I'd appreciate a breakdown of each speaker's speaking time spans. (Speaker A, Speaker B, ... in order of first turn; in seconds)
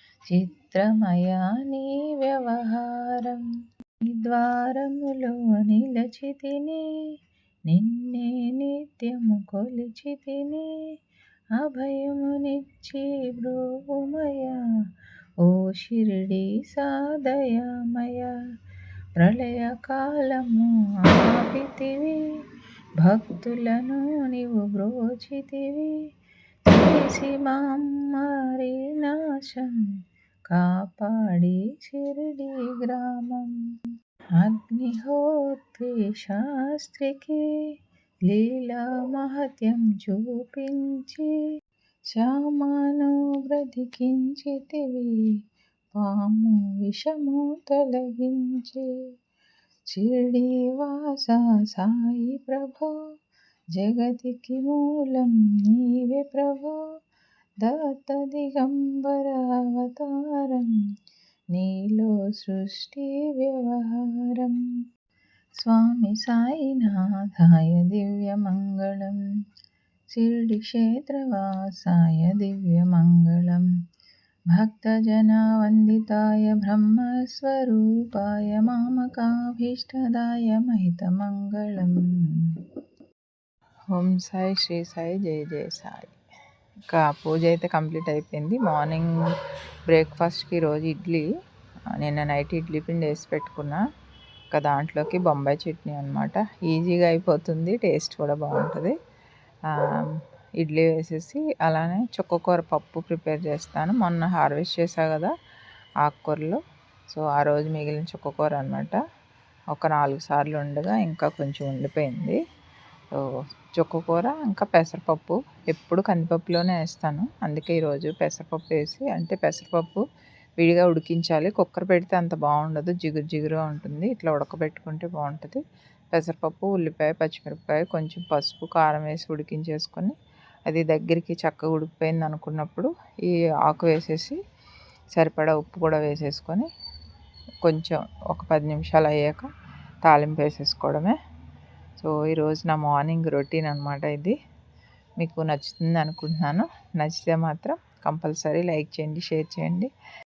Speaker A: 0.3-3.5, 4.0-6.8, 7.7-10.8, 11.6-14.6, 15.4-18.4, 19.2-22.2, 23.0-25.9, 26.6-29.8, 30.5-33.5, 34.4-37.5, 38.3-41.4, 42.1-45.3, 45.9-48.9, 49.9-52.9, 53.7-56.8, 57.6-60.8, 61.5-64.6, 65.6-69.2, 70.1-73.7, 74.5-82.5, 83.9-86.1, 86.9-89.1, 89.9-91.3, 91.9-93.8, 94.5-98.9, 100.6-105.3, 106.0-109.0, 109.7-112.4, 113.1-120.0, 120.6-125.6, 126.1-130.1, 130.7-134.4, 135.1-136.7, 137.6-139.5, 140.0-141.1, 142.0-144.3, 145.2-149.9